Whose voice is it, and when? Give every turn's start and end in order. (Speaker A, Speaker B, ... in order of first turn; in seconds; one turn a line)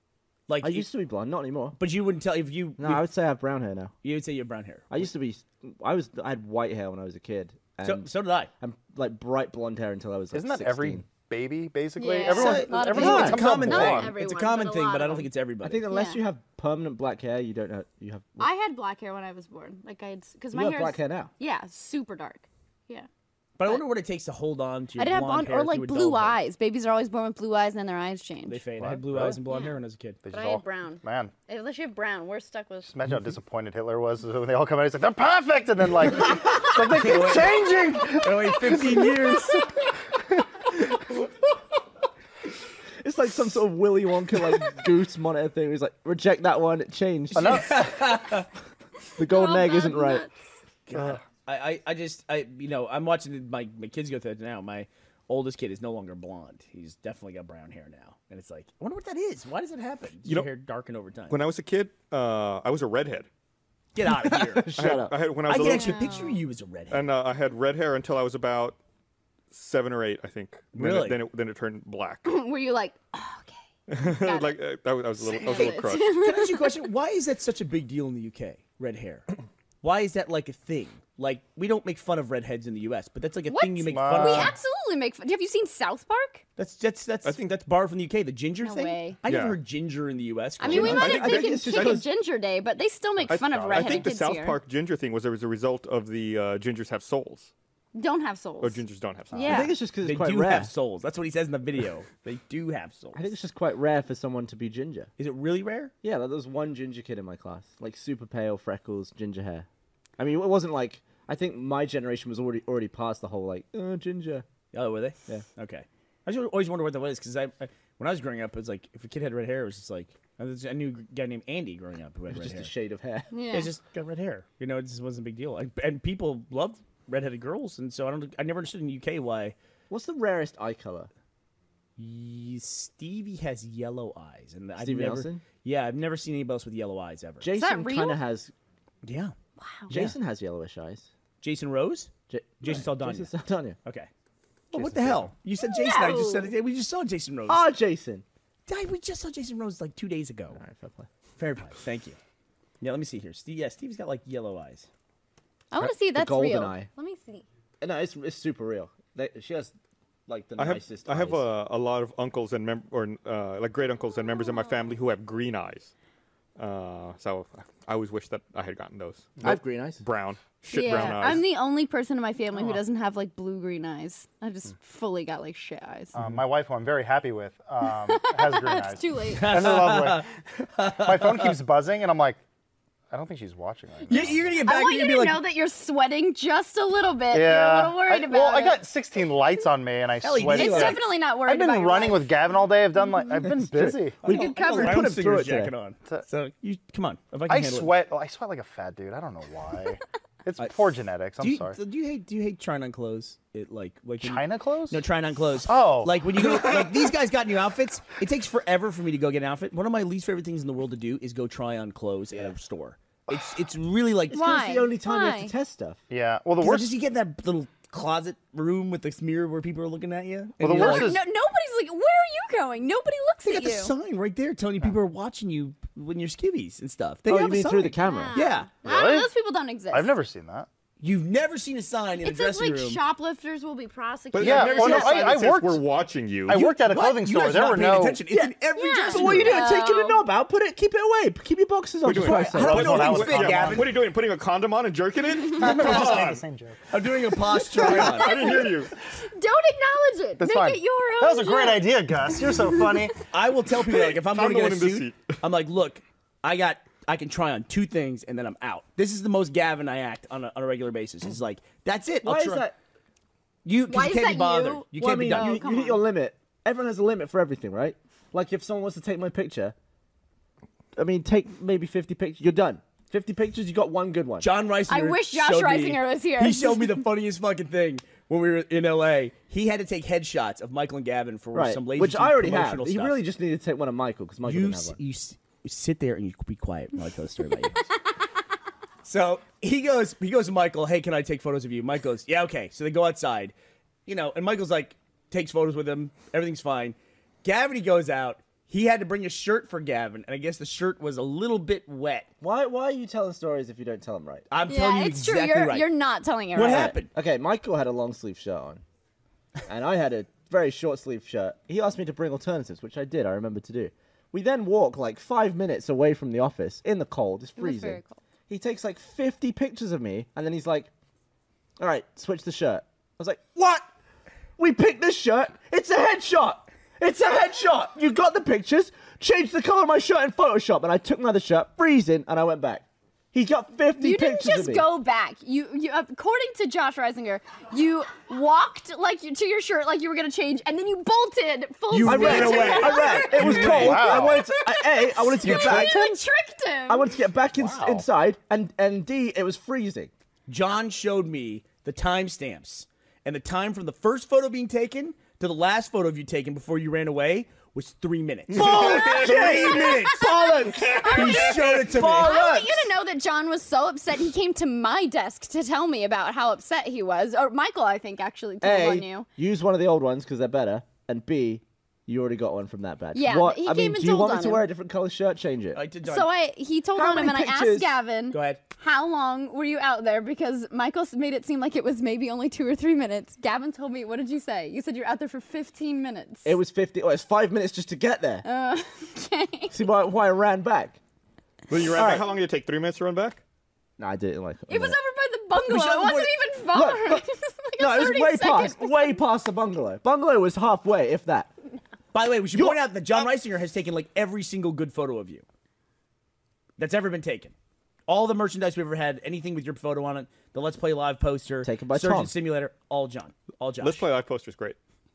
Speaker A: 0.5-0.9
Speaker B: 0.6-1.8
Speaker A: 1.8-3.1
Speaker B: 2.8-3.9
Speaker A: 4.0-4.9
Speaker B: 4.9-8.1
Speaker A: 7.8-8.5
Speaker B: 8.6-11.1
Speaker C: 10.3-14.1
Speaker D: 12.0-15.3
Speaker A: 12.3-15.8
Speaker B: 12.9-13.4
Speaker B: 15.6-18.5
Speaker D: 15.9-16.2
Speaker D: 18.4-23.1
Speaker B: 20.5-21.3
Speaker A: 23.6-26.4
Speaker D: 25.0-28.6
Speaker A: 28.5-30.2
Speaker C: 28.8-29.4
Speaker C: 30.2-31.3
Speaker D: 30.3-32.9
Speaker C: 32.9-39.5
Speaker A: 36.6-39.6
Speaker B: 43.0-47.9
Speaker C: 47.3-47.9
Speaker A: 47.4-48.5
Speaker B: 49.2-50.2
Speaker D: 49.2-50.3
Speaker A: 50.9-61.4
Speaker E: 60.2-60.5
Speaker E: 61.3-63.3
Speaker A: 64.0-67.0
Speaker B: 64.3-65.2
Speaker E: 64.8-66.2
Speaker D: 65.5-66.4
Speaker E: 66.9-68.8
Speaker E: 69.5-72.3
Speaker A: 70.7-71.2
Speaker D: 72.3-74.5
Speaker E: 73.9-76.3
Speaker D: 75.2-76.8
Speaker A: 76.2-79.3
Speaker A: 79.8-84.5
Speaker D: 83.5-86.4
Speaker C: 83.9-84.5
Speaker A: 86.6-91.2
Speaker D: 88.6-89.2
Speaker E: 89.2-89.6
Speaker D: 90.6-94.6
Speaker B: 90.7-92.1
Speaker E: 90.7-92.0
Speaker C: 93.3-94.1
Speaker E: 93.3-97.5
Speaker D: 97.9-98.8
Speaker E: 98.6-99.7
Speaker D: 99.3-99.8
Speaker B: 99.4-100.7
Speaker A: 100.0-103.3
Speaker B: 103.1-105.1
Speaker A: 105.2-105.9
Speaker B: 106.0-109.7
Speaker B: 110.2-114.5
Speaker A: 114.7-122.7
Speaker B: 122.3-123.3
Speaker D: 123.3-123.7
Speaker A: 123.5-129.6
Speaker B: 129.9-131.1
Speaker A: 132.0-137.5
Speaker B: 134.8-135.4
Speaker B: 137.4-138.5
Speaker D: 137.5-138.2
Speaker A: 139.0-139.3
Speaker D: 139.6-139.9
Speaker A: 139.9-140.2
Speaker B: 139.9-141.1
Speaker A: 141.4-143.3
Speaker B: 142.3-143.8
Speaker A: 143.8-144.1
Speaker B: 144.7-145.3
Speaker A: 144.7-147.7
Speaker D: 145.6-146.5
Speaker B: 147.5-148.2
Speaker A: 148.7-150.6
Speaker B: 150.6-151.1
Speaker A: 151.4-152.2
Speaker A: 152.8-154.9
Speaker D: 155.7-157.4
Speaker B: 155.8-156.9
Speaker B: 157.8-159.7
Speaker B: 160.3-161.5
Speaker E: 160.6-165.9
Speaker E: 166.6-171.5
Speaker B: 169.4-170.0
Speaker D: 170.7-176.1
Speaker C: 176.2-180.3
Speaker D: 177.9-179.6
Speaker A: 179.3-181.6
Speaker C: 180.9-182.4
Speaker C: 183.1-184.6
Speaker A: 184.1-185.4
Speaker D: 184.7-188.8
Speaker C: 187.3-194.2
Speaker A: 190.2-191.0
Speaker D: 190.4-192.3
Speaker B: 193.6-195.7
Speaker D: 194.2-195.1
Speaker A: 194.2-197.9
Speaker C: 197.5-201.8
Speaker A: 201.4-214.7
Speaker C: 204.2-205.0
Speaker C: 205.6-206.2
Speaker B: 214.3-216.0
Speaker D: 214.3-215.5
Speaker C: 216.1-216.9
Speaker A: 216.6-221.2
Speaker C: 220.6-221.2
Speaker D: 220.8-223.9
Speaker A: 223.4-228.7
Speaker B: 227.3-228.4
Speaker D: 228.0-230.1
Speaker C: 228.8-229.3
Speaker C: 229.9-230.7
Speaker A: 231.0-233.0
Speaker D: 232.2-235.4
Speaker E: 234.3-236.7
Speaker C: 234.4-235.8
Speaker C: 236.5-238.2
Speaker A: 236.5-239.6
Speaker B: 238.3-243.0
Speaker D: 238.8-240.3
Speaker E: 242.0-246.4
Speaker A: 242.1-244.0
Speaker C: 242.7-243.9
Speaker C: 245.6-246.8
Speaker A: 246.9-248.6
Speaker E: 247.8-248.9
Speaker D: 247.8-251.9
Speaker C: 250.4-253.2
Speaker A: 253.3-262.7
Speaker E: 253.9-255.3
Speaker B: 262.2-262.8
Speaker A: 263.6-265.6
Speaker D: 263.9-266.0
Speaker B: 264.9-269.8
Speaker B: 270.9-274.5
Speaker A: 274.4-283.2
Speaker D: 274.9-276.9
Speaker B: 281.5-285.0
Speaker A: 284.4-287.9
Speaker A: 289.1-293.5
Speaker A: 294.1-302.3
Speaker B: 302.4-304.5
Speaker A: 304.5-305.9
Speaker D: 304.7-306.9
Speaker A: 306.5-307.1
Speaker B: 306.6-308.8
Speaker B: 309.7-320.9
Speaker D: 317.6-318.2
Speaker B: 321.8-323.9
Speaker B: 324.6-334.9
Speaker D: 334.0-347.1
Speaker A: 341.9-344.2
Speaker B: 342.0-346.0
Speaker C: 343.6-344.4
Speaker C: 345.4-346.2
Speaker B: 346.9-350.1
Speaker C: 347.6-348.1
Speaker A: 350.5-362.9
Speaker E: 358.5-359.9
Speaker B: 358.5-360.2
Speaker D: 358.8-369.3
Speaker E: 360.8-361.9
Speaker B: 368.6-375.8
Speaker D: 373.1-374.7
Speaker A: 375.7-376.3
Speaker D: 376.1-386.6
Speaker B: 376.9-377.9
Speaker A: 378.3-378.6
Speaker B: 386.4-388.4
Speaker D: 388.4-389.8
Speaker B: 389.7-391.0
Speaker E: 391.7-393.4
Speaker B: 391.9-392.4
Speaker B: 394.0-395.0
Speaker D: 394.7-399.2
Speaker A: 395.6-396.3
Speaker B: 396.7-397.2
Speaker B: 397.8-401.5
Speaker A: 402.1-405.4
Speaker B: 402.5-402.8
Speaker A: 406.8-407.5
Speaker A: 408.1-414.1
Speaker B: 411.6-412.3
Speaker E: 413.8-414.8